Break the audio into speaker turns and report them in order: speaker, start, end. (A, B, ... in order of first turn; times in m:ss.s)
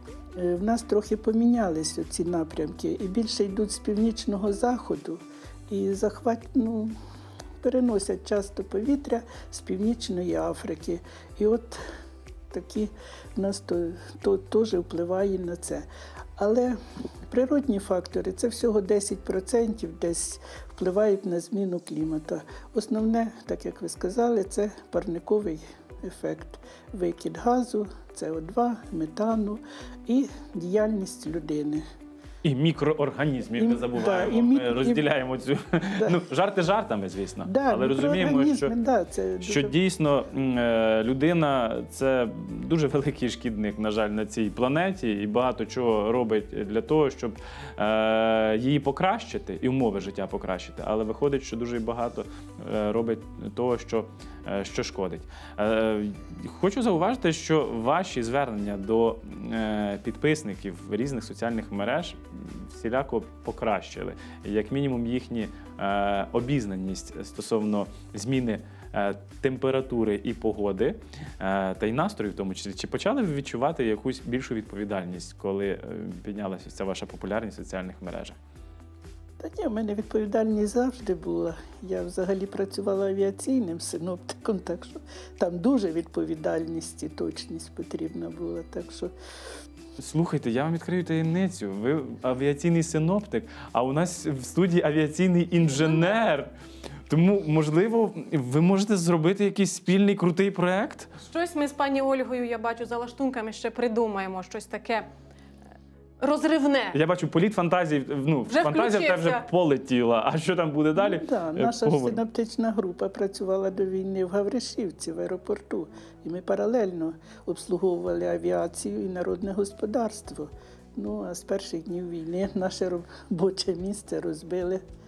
0:00.3-0:06.9 A
0:07.6-0:11.8 A
0:12.5-0:16.8 A
0:17.3-0:31.8 A
0:32.4-0:38.7 B
0:33.6-0:35.1 A
0:37.4-0:39.7 A
0:39.4-1:18.4 B
1:19.4-1:29.1 A
1:30.0-1:36.5 B
1:37.1-1:41.1 B
1:41.2-1:45.1 C
1:46.2-1:47.0 C
1:46.9-1:52.2 B
1:48.5-1:49.4 C
1:50.9-2:04.8 A